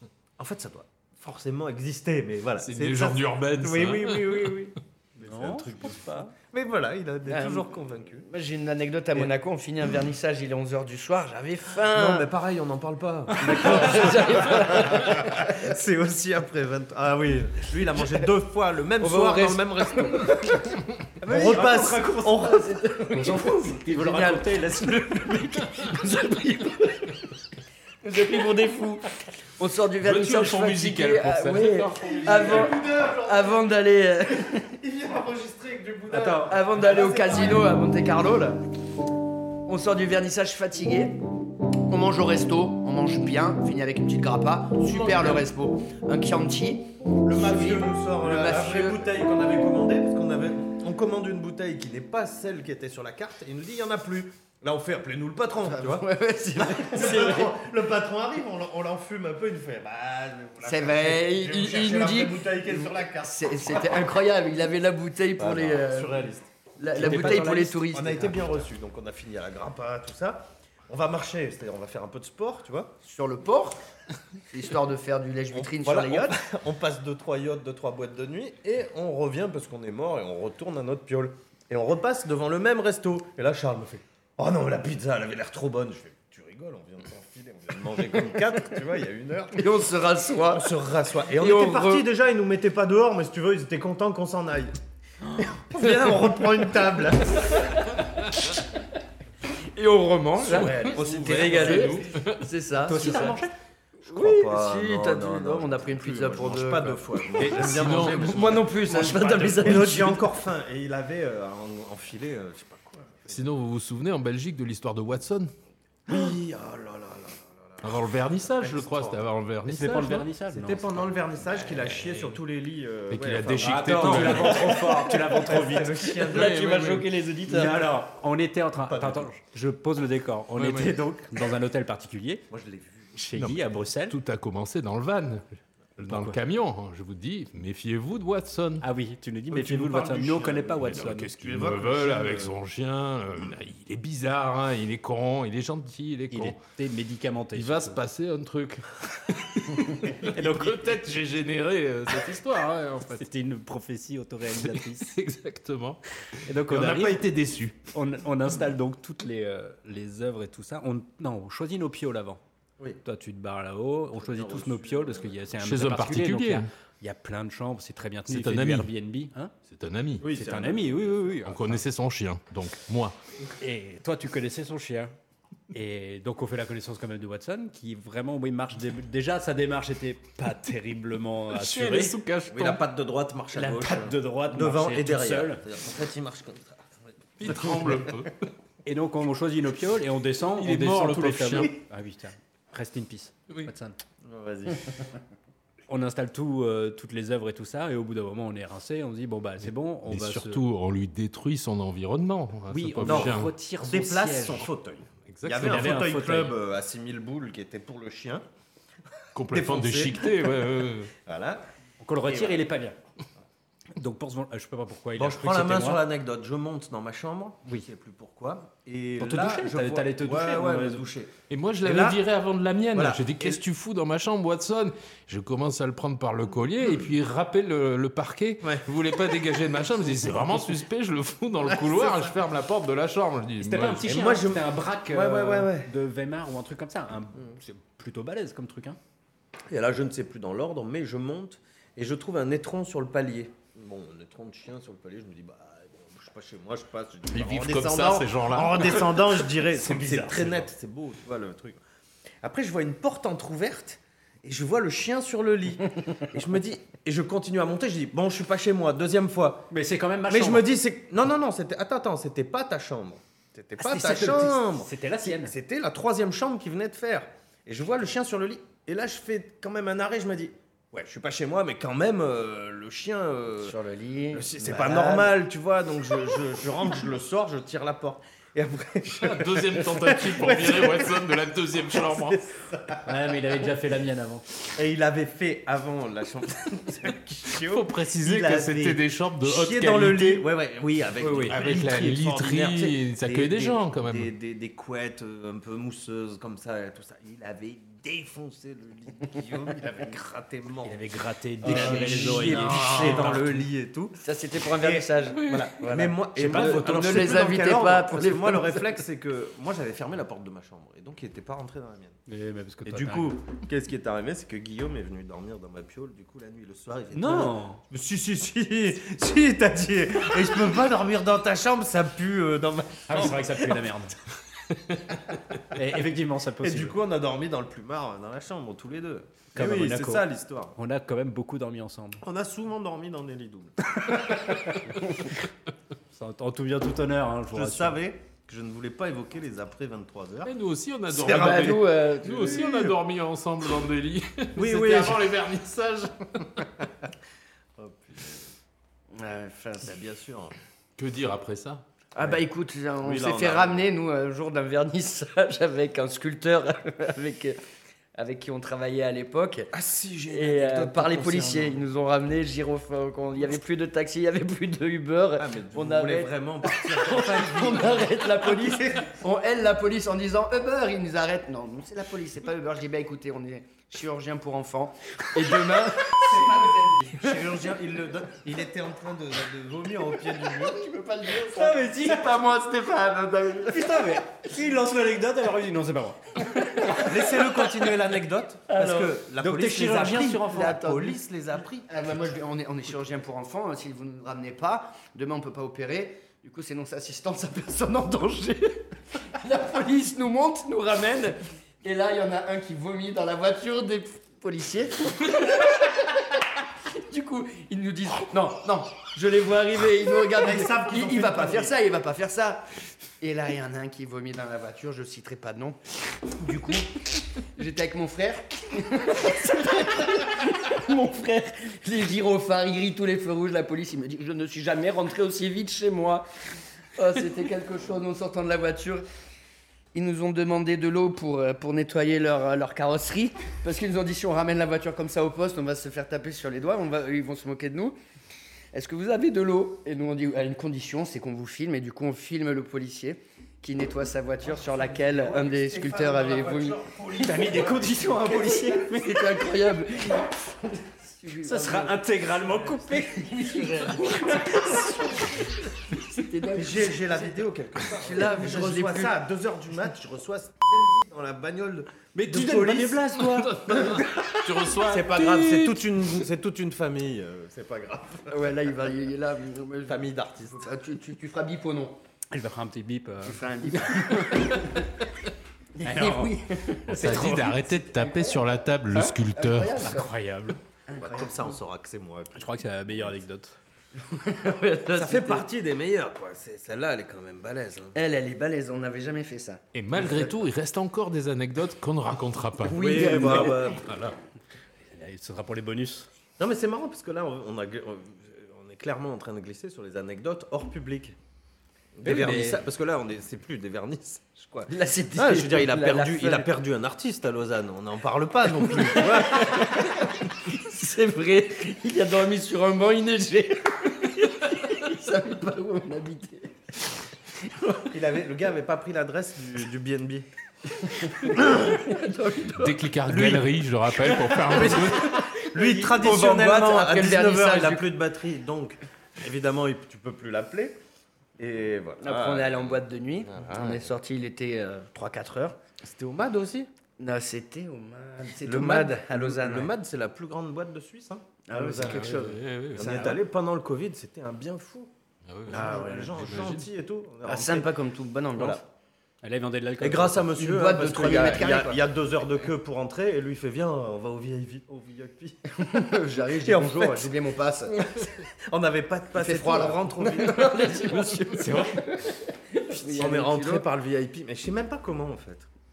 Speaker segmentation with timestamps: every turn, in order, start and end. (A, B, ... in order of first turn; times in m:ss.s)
0:00.4-0:08.3 A
0:02.6-0:04.7 B
0:05.2-0:06.3 C
0:07.3-0:12.3 D
0:11.9-0:20.6 A
0:13.4-0:15.7 D
0:19.0-0:20.8 D
0:21.2-0:22.5 C
0:21.2-0:22.8 A
0:22.4-0:27.2 D
0:23.1-0:26.0 C
0:28.0-0:29.0 D
0:29.6-0:34.8 D
0:30.0-0:32.7 B
0:32.0-0:33.6 A
0:34.5-0:37.7 A
0:36.1-0:36.5 C
0:36.1-0:38.6 D
0:39.6-0:41.2 D
0:41.9-0:49.1 D
0:47.2-1:04.0 A
0:55.6-0:57.6 D
1:00.6-1:06.3 D
1:05.4-1:13.0 A
1:06.8-1:08.7 D
1:06.9-1:07.8 C
1:13.0-1:13.8 D
1:14.5-1:16.4 D
1:15.5-1:29.8 A
1:29.6-1:30.7 D
1:30.4-1:34.8 A
1:31.3-1:32.1 D
1:35.4-1:37.7 A
1:37.3-1:37.8 D
1:39.6-1:43.4 D
1:40.5-1:42.0 A
1:40.5-1:42.5 B
1:42.8-1:43.5 C
1:44.0-1:50.3 D
1:44.0-1:53.5 A
1:47.4-1:48.6 B
1:53.3-1:55.5 B
1:56.1-1:59.2 A
1:57.8-2:00.3 B
1:59.6-2:01.1 C
2:00.5-2:07.0 A
2:03.1-2:04.8 B
2:03.6-2:06.1 C
2:06.1-2:07.9 D
2:06.3-2:07.0 B
2:07.5-2:12.4 C
2:08.9-2:09.3 A
2:10.6-2:11.0 B
2:12.5-2:13.2 A
2:13.1-2:14.2 C
2:13.4-2:15.4 B
2:16.0-2:18.8 B
2:16.0-2:16.4 C
2:18.8-2:21.3 C
2:19.5-2:22.6 A
2:20.8-2:26.6 B
2:26.3-2:28.0 C
2:27.5-2:33.2 B
2:30.0-2:30.9 C
2:33.2-2:35.1 C
2:34.6-2:36.0 B
2:36.4-2:37.2 C
2:36.6-2:37.8 B
2:37.9-2:42.4 C
2:43.0-2:49.5 C
2:44.2-2:45.5 A
2:45.6-2:46.7 B
2:48.3-2:48.9 B
2:49.7-2:50.3 B
2:50.2-2:51.4 A
2:50.3-2:51.8 C
2:51.4-2:53.2 B
2:53.6-2:55.1 C
2:55.7-3:02.2 C
3:01.5-3:02.8 B
3:02.5-3:08.0 A
3:03.5-3:05.6 C
3:07.4-3:08.4 B
3:08.8-3:14.0 C
3:10.6-3:11.8 B
3:14.2-3:15.1 A
3:15.9-3:20.6 C
3:20.1-3:23.5 B
3:22.7-3:24.7 C
3:23.0-3:28.4 A
3:25.3-3:25.9 B
3:25.6-3:26.5 C
3:29.3-3:31.1 B
3:29.5-3:30.7 A
3:31.2-3:31.6 A
3:32.0-3:33.0 C
3:32.3-3:32.6 A
3:34.0-3:36.0 C
3:35.2-3:42.2 A
3:39.2-3:41.0 C
3:41.5-3:54.0 B
3:42.9-3:43.6 A
3:48.6-3:48.9 A
3:51.6-3:52.3 A
3:53.6-3:59.0 C
3:54.0-3:55.9 A
3:59.7-4:11.8 A
4:07.3-4:09.2 B
4:09.7-4:10.7 C
4:12.4-4:19.7 A
4:19.7-4:20.7 C
4:20.3-4:33.8 A
4:23.8-4:25.5 C
4:33.6-4:35.3 D
4:34.3-4:41.3 A
4:39.1-4:42.4 B
4:41.9-4:43.0 A
4:43.0-4:44.4 C
4:44.7-5:01.0 A
4:47.6-4:50.5 B
4:51.2-4:51.6 C
4:51.5-4:54.3 B
5:00.8-5:03.6 C
5:01.6-5:12.2 A
5:01.7-5:02.2 D
5:02.6-5:03.4 B
5:04.2-5:09.0 D
5:05.4-5:05.7 B
5:06.4-5:07.4 C
5:12.3-5:13.4 C
5:12.8-5:23.8 A
5:17.1-5:17.8 C
5:23.1-5:24.2 C
5:25.7-5:26.9 C
5:26.6-5:30.7 A
5:29.5-5:32.2 C
5:32.2-5:34.4 A
5:36.1-5:38.0 C
5:37.5-5:40.5 A
5:40.5-5:46.7 B
5:41.1-5:41.9 A
5:41.1-5:42.9 D
5:42.5-5:42.9 A
5:44.6-5:45.3 A
5:47.8-5:48.4 A
5:49.1-5:49.9 D
5:49.8-5:50.5 A
5:51.0-5:51.8 B
5:52.1-5:57.6 D
5:53.0-5:53.8 A
5:58.2-5:59.7 D
5:59.7-6:01.8 A
6:00.3-6:17.5 D
6:05.4-6:09.1 A
6:16.1-6:20.8 A
6:20.3-6:24.2 D
6:21.6-6:22.2 C
6:23.7-6:26.4 C
6:26.4-6:27.7 D
6:27.0-6:32.0 A
6:28.7-6:29.2 D
6:29.4-6:30.9 C
6:30.5-6:31.2 D
6:31.9-6:52.6 D
6:50.4-6:51.8 A
6:53.2-6:55.8 D
6:56.4-7:06.3 D
7:07.0-7:09.0 D
7:09.9-7:18.0 D
7:18.7-7:26.8 D
7:24.5-7:28.2 A
7:27.2-7:29.4 C
7:28.2-7:32.0 D
7:31.4-7:35.3 C
7:32.9-7:37.2 D
7:36.5-7:48.6 A
7:37.8-7:39.2 D
7:42.1-7:43.7 C
7:43.3-7:46.1 B
7:48.3-7:52.0 D
7:49.8-7:50.6 A
7:52.3-7:54.4 C
7:53.2-7:54.9 D
7:55.8-8:00.1 D
7:55.8-7:57.6 C
7:56.9-7:59.8 B
7:59.8-8:00.6 C
8:00.9-8:01.6 D
8:01.0-8:03.1 A
8:02.3-8:03.6 C
8:04.0-8:05.4 D
8:04.9-8:08.0 A
8:07.9-8:10.3 D
8:09.7-8:14.2 B
8:12.6-8:13.7 D
8:12.7-8:13.8 A
8:14.9-8:16.1 C
8:16.4-8:21.2 A
8:22.0-8:30.1 A
8:22.0-8:22.6 C
8:24.7-8:26.5 D
8:28.6-8:36.5 D
8:37.4-8:37.8 D
8:37.8-8:40.2 A
8:40.8-8:42.8 D
8:41.3-8:41.7 A
8:42.5-8:45.1 B
8:43.1-8:43.4 A
8:44.0-8:50.8 A
8:44.5-8:47.9 D
8:51.4-8:53.9 A
8:52.0-8:55.6 D
8:55.8-8:56.7 A
8:57.0-8:59.7 D
8:58.4-9:04.9 A
9:01.5-9:03.2 D
9:01.8-9:03.0 B
9:05.3-9:06.7 B
9:05.5-9:07.7 A
9:05.5-9:06.1 D
9:07.2-9:08.6 D
9:08.3-9:08.6 A
9:09.2-9:10.4 C
9:09.8-9:15.7 A
9:10.4-9:11.8 D
9:15.6-9:18.1 D
9:16.4-9:17.2 A
9:17.7-9:21.4 A
9:19.2-9:23.6 D
9:21.4-9:21.8 C
9:22.8-9:25.5 A